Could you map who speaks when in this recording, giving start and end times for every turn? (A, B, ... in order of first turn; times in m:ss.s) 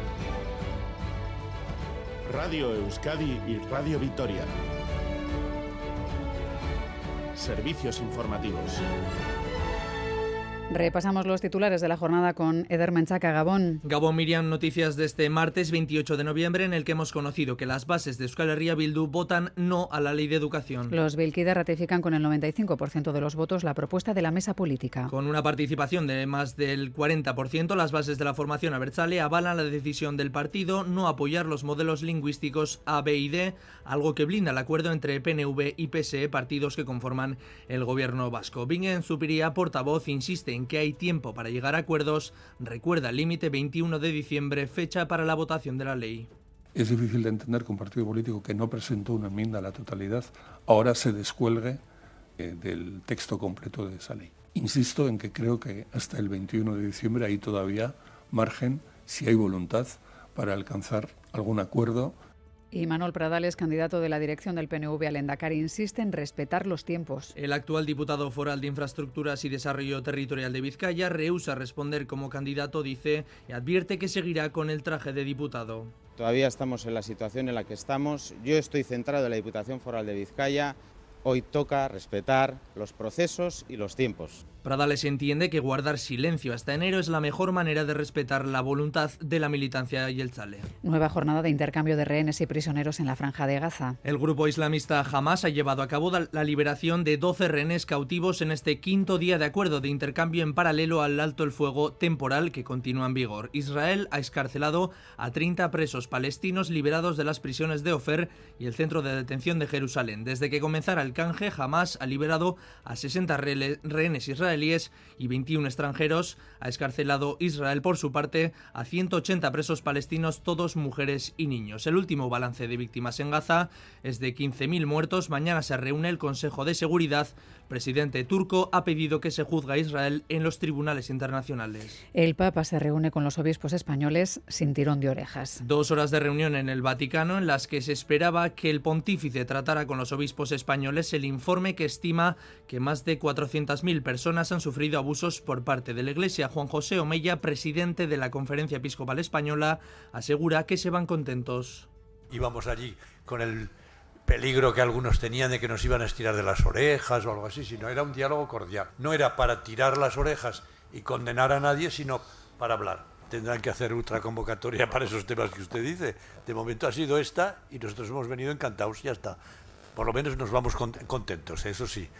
0:02.3-0:04.5 A
0:07.3-0:08.8 A
0:10.7-0:13.8 B
0:13.8-0:20.9 C
0:20.9-0:25.1 B
0:25.1-0:46.3 C
0:46.7-0:51.8 D
0:52.4-1:02.2 D
1:02.7-1:07.3 B
1:07.3-1:15.9 C
1:16.2-1:24.4 E
1:24.6-1:30.7 C
1:30.8-1:34.0 B
1:34.0-2:12.0 C
2:12.1-2:15.6 B
2:15.6-2:31.9 C
2:32.3-2:33.7 F
2:34.3-2:49.4 F
2:50.0-2:52.1 F